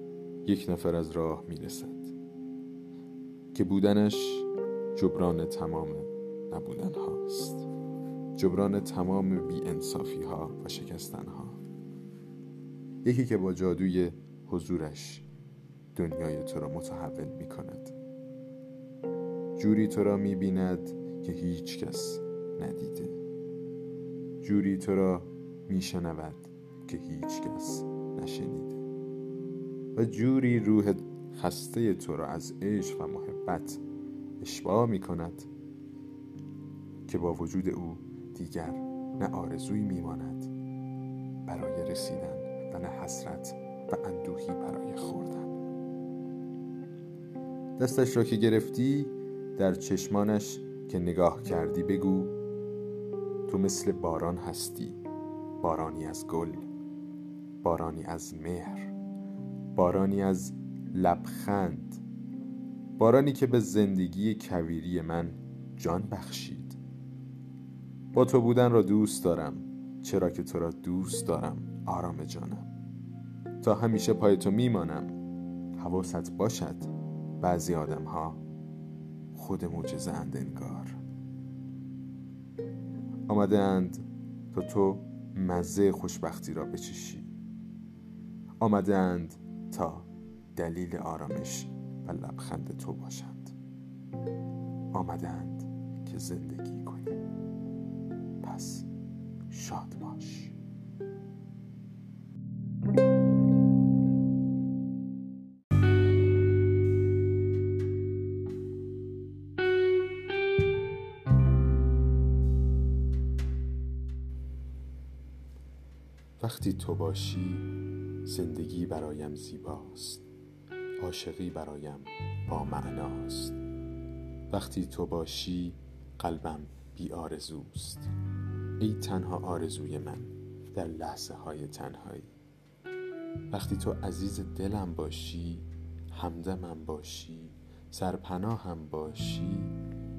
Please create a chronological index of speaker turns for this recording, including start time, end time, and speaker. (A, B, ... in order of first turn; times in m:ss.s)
0:00.4-0:02.1 A
0:03.5-0:07.7 A
0:08.4-0:11.6 A
0:13.0-0:15.3 A
0:16.0-0:17.9 A
0:19.6-0:23.2 A
0:24.4-0:28.8 A
0:30.0-0:33.8 A
0:34.4-0:35.5 A
0:37.1-0:40.5 A
0:41.5-0:45.6 A
0:47.8-0:52.4 A
0:53.5-0:55.0 A
0:55.6-0:56.7 A
0:57.6-0:59.0 A
0:59.8-1:02.0 A
1:03.0-1:06.8 A
1:08.1-1:12.7 A
1:13.6-1:15.2 A
1:15.8-1:18.4 A
1:19.3-1:21.0 A
1:23.3-1:27.3 A
1:28.6-1:33.5 A
1:34.9-1:37.2 A
1:38.4-1:38.9 A
1:39.5-1:40.6 A
1:56.4-1:57.7 A
1:58.2-2:00.2 A
2:01.0-2:03.6 A
2:04.5-2:08.1 A
2:08.8-2:12.3 A
2:13.5-2:19.8 A